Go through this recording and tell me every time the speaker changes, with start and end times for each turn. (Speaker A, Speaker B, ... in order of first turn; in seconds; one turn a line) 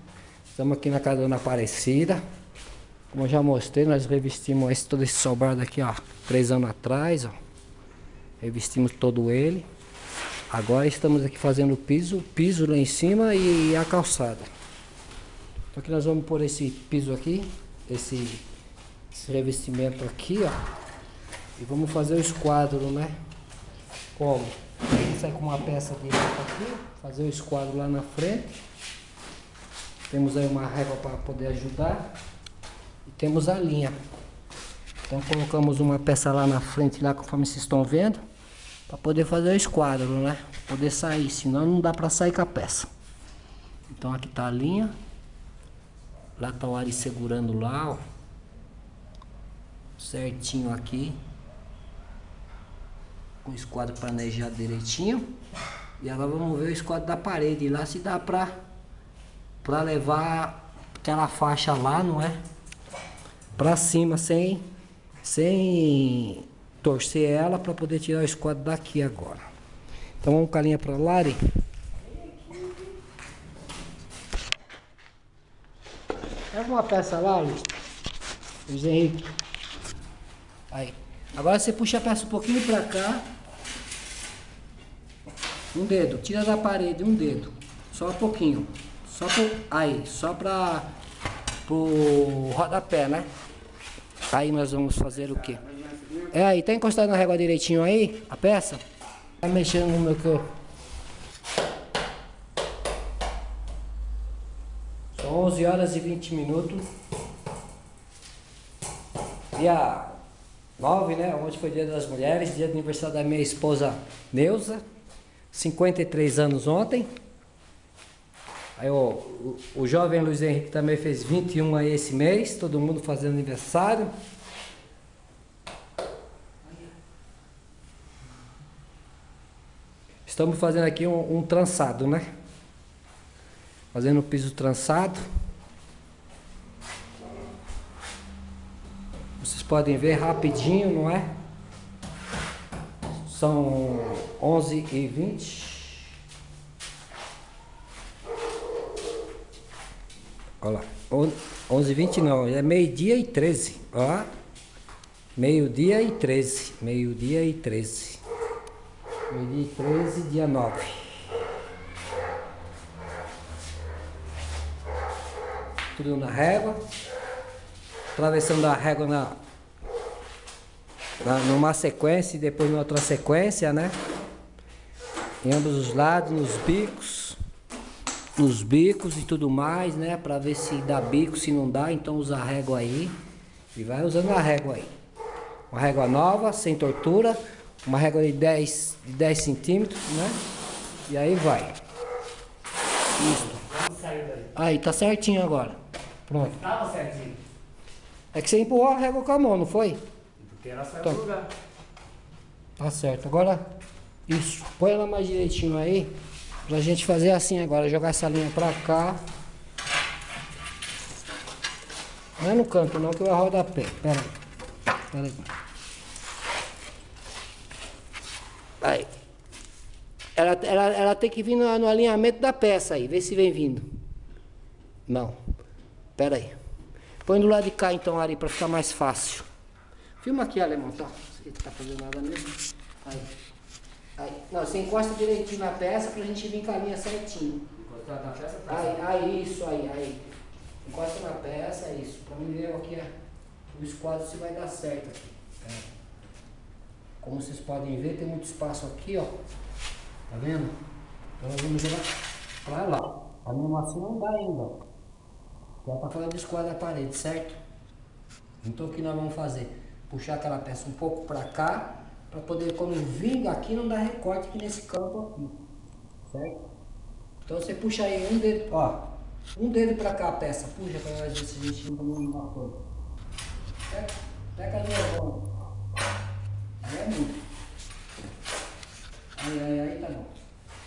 Speaker A: 0.5-2.2
Speaker A: 3.1-7.3
Speaker A: 8.4-9.7
Speaker A: 10.5-14.5
Speaker A: 15.7-18.4
Speaker A: 19.1-20.6
Speaker A: 21.6-23.1
Speaker A: 24.1-28.5
Speaker A: 30.1-32.0
Speaker A: 33.0-34.0
Speaker A: 35.1-38.2
Speaker A: 38.9-42.9
Speaker A: 43.9-44.9
Speaker A: 46.4-48.0
Speaker A: 50.0-51.2
Speaker A: 53.4-55.3
Speaker A: 56.0-58.5
Speaker A: 59.6-62.4
Speaker A: 63.6-64.6
Speaker A: 65.2-69.4
Speaker A: 70.2-71.4
Speaker A: 76.5-77.7
Speaker A: 78.7-79.3
Speaker A: 80.7-83.2
Speaker A: 85.7-90.9
Speaker A: 91.7-93.3
Speaker A: 94.3-95.6
Speaker B: 95.7-96.3
Speaker A: 96.3-98.8
Speaker A: 99.4-100.5
Speaker A: 105.1-106.8
Speaker A: 109.5-110.1
Speaker A: 110.8-114.8
Speaker A: 115.5-117.1
Speaker A: 118.8-124.1
Speaker A: 130.2-132.3
Speaker A: 133.9-135.2
Speaker A: 139.4-141.3
Speaker A: 143.2-146.1
Speaker A: 150.6-154.3
Speaker A: 155.3-158.2
Speaker A: 159.3-161.2
Speaker A: 165.9-166.8
Speaker A: 168.1-169.4
Speaker A: 171.2-173.9
Speaker A: 175.4-177.4
Speaker A: 178.3-183.1
Speaker A: 183.7-184.9
Speaker A: 185.7-190.4
Speaker A: 191.1-191.8
Speaker A: 193.2-193.7
Speaker B: 193.7-194.5
Speaker A: 194.5-196.6
Speaker B: 196.6-197.4
Speaker A: 198.3-200.0
Speaker B: 200.4-201.5
Speaker A: 202.8-203.6
Speaker A: 204.3-206.1
Speaker A: 206.7-209.2
Speaker A: 212.4-214.3
Speaker A: 215.1-215.4
Speaker A: 218.8-219.1
Speaker A: 220.3-223.9
Speaker A: 225.1-225.4
Speaker A: 226.2-226.6
Speaker A: 227.2-229.5
Speaker A: 230.2-233.3
Speaker A: 234.2-237.7
Speaker B: 237.8-238.9
Speaker A: 238.7-240.2
Speaker A: 240.8-243.1
Speaker A: 243.7-245.9
Speaker A: 247.2-249.3
Speaker A: 250.3-250.8
Speaker A: 251.4-252.1
Speaker A: 252.6-254.8
Speaker A: 255.8-257.6
Speaker A: 258.6-265.6
Speaker A: 266.3-266.6
Speaker A: 267.4-269.0
Speaker A: 269.5-272.8
Speaker A: 273.9-275.4
Speaker A: 276.8-277.4
Speaker A: 279.4-280.3